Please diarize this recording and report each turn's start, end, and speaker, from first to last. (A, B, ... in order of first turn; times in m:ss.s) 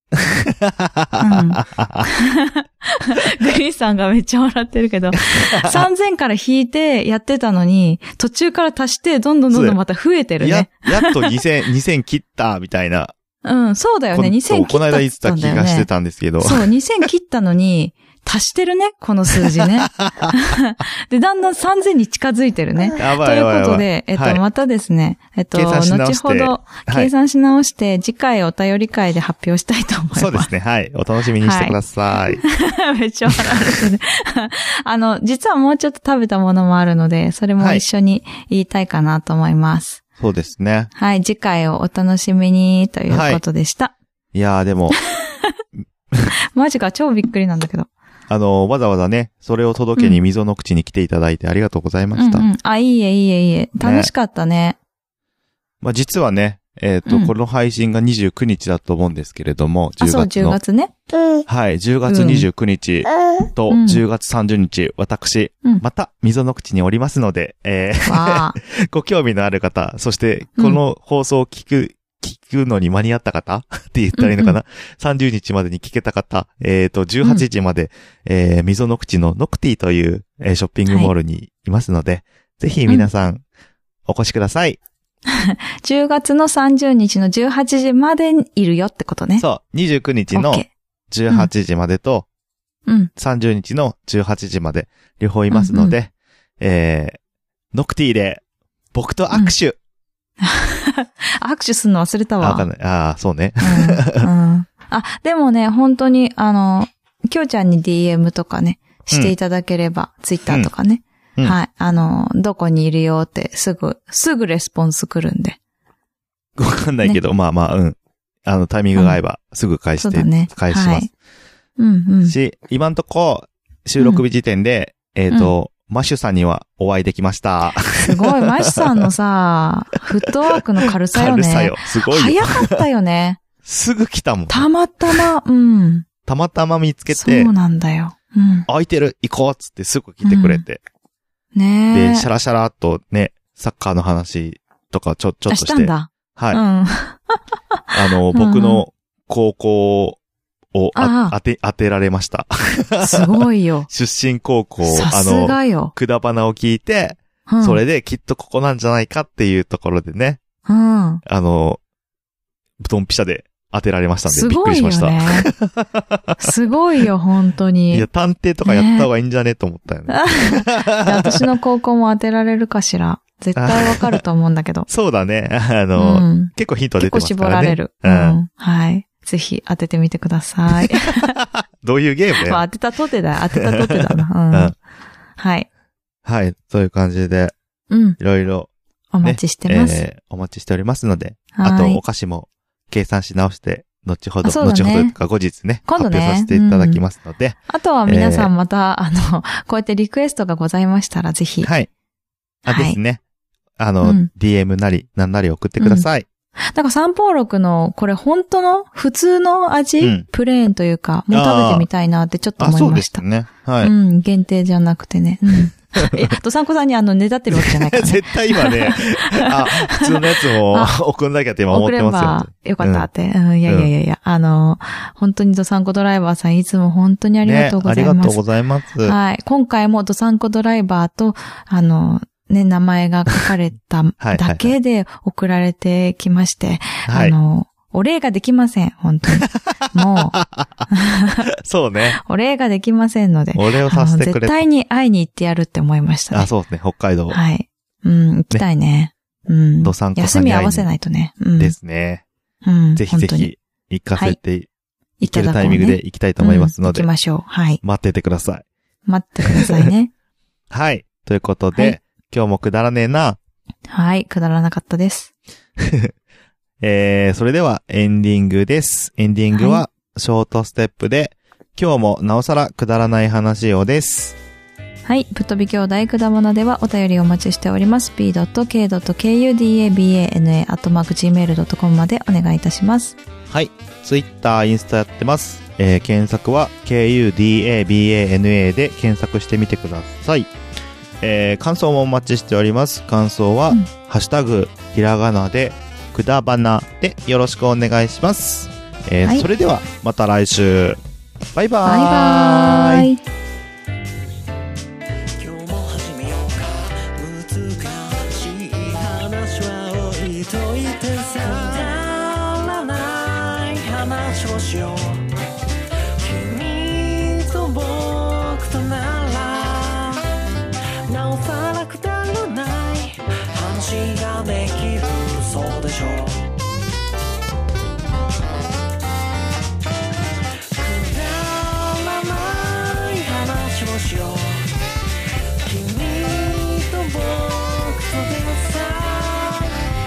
0:00.2-0:02.1 A
0:01.2-0:11.3 B
0:05.3-0:05.8 A
0:09.5-0:09.8 A
0:10.4-0:13.1 A
0:13.4-0:15.9 B
0:14.1-0:16.7 A
0:16.4-0:30.5 B
0:19.4-0:20.3 A
0:23.0-0:24.4 A
0:25.5-0:27.1 A
0:30.1-0:32.4 A
0:31.4-0:31.8 B
0:32.3-0:40.0 B
0:40.2-0:40.9 A
0:40.9-0:43.9 B
0:43.1-0:43.4 A
0:44.3-0:45.0 A
0:45.1-0:45.5 B
0:46.5-0:47.9 B
0:48.3-0:52.5 A
0:50.0-0:50.2 B
0:52.1-0:54.8 B
0:53.8-0:54.1 A
0:55.8-1:00.6 A
0:57.0-0:57.3 B
1:00.0-1:00.9 B
1:01.5-1:23.4 A
1:02.1-1:02.5 B
1:03.7-1:04.0 B
1:08.0-1:08.6 B
1:14.2-1:14.6 B
1:24.1-1:24.8 A
1:25.3-1:29.4 B
1:29.4-1:32.2 A
1:30.3-1:30.7 B
1:33.2-1:37.2 A
1:35.5-1:36.0 B
1:37.7-1:38.4 A
1:38.9-1:39.8 A
1:40.4-1:42.7 B
1:42.4-1:44.3 A
1:43.6-1:55.6 B
1:56.6-2:01.1 A
2:00.0-2:01.1 B
2:01.8-2:02.4 B
2:02.2-2:09.1 A
2:08.0-2:13.4 B
2:10.1-2:12.8 A
2:13.6-2:15.3 A
2:14.5-2:16.1 B
2:16.2-2:17.5 A
2:17.1-2:18.7 B
2:18.7-2:20.8 A
2:20.2-2:20.6 B
2:21.5-2:22.3 B
2:21.9-2:26.6 A
2:25.5-2:28.8 B
2:27.9-2:30.2 A
2:30.7-2:40.4 A
2:30.9-2:31.4 B
2:33.0-2:33.9 B
2:34.8-2:35.9 B
2:37.5-2:37.8 B
2:40.6-2:41.2 B
2:41.2-2:41.8 A
2:42.8-2:46.5 A
2:44.2-2:45.5 B
2:46.4-2:48.1 B
2:47.9-2:51.4 A
2:48.6-2:49.1 B
2:50.1-2:54.9 B
2:53.6-2:54.2 A
2:54.9-2:58.4 A
2:56.0-3:01.3 B
3:00.8-3:02.6 A
3:02.4-3:04.7 B
3:03.6-3:04.7 A
3:05.4-3:05.7 B
3:06.2-3:07.5 A
3:07.9-3:08.2 B
3:08.2-3:08.7 A
3:09.1-3:10.0 B
3:09.2-3:18.5 A
3:11.5-3:12.0 B
3:14.4-3:15.2 B
3:15.8-3:17.0 B
3:17.7-3:21.7 B
3:21.6-3:21.9 A
3:22.6-3:23.2 A
3:22.6-3:23.0 B
3:23.8-3:26.2 A
3:24.0-3:24.3 B
3:25.8-3:26.1 B
3:26.7-3:33.2 B
3:30.0-3:30.2 A
3:31.3-3:31.9 A
3:32.6-3:33.9 A
3:33.8-3:41.0 B
3:36.0-3:36.3 A
3:37.5-3:43.1 A
3:41.7-3:48.4 B
3:47.4-3:49.2 A
3:49.0-4:00.4 B
3:54.2-3:54.7 A
3:57.0-3:57.3 A
3:59.3-4:00.8 A
4:00.9-4:01.5 B
4:01.5-4:02.2 A
4:02.2-4:06.5 B
4:03.5-4:04.6 A
4:06.3-4:07.4 A
4:07.3-4:11.7 B
4:09.8-4:10.9 A
4:11.6-4:12.2 A
4:12.6-4:13.5 B
4:13.0-4:14.7 A
4:15.2-4:17.8 B
4:15.2-4:17.1 A
4:17.8-4:18.6 A
4:19.0-4:20.1 B
4:19.5-4:19.9 A
4:20.7-4:23.4 A
4:21.7-4:22.0 B
4:23.9-4:25.3 B
4:25.8-4:26.1 A
4:26.8-4:34.4 A
4:29.5-4:29.8 B
4:35.0-4:43.2 B
4:43.5-4:50.5 A
4:51.2-5:01.0 A
5:01.5-5:03.1 A
5:01.8-5:03.2 B
5:05.4-5:15.3 C
5:16.2-5:20.3 C
5:21.0-5:26.5 C
5:30.7-5:34.8 C
5:35.6-5:39.9 C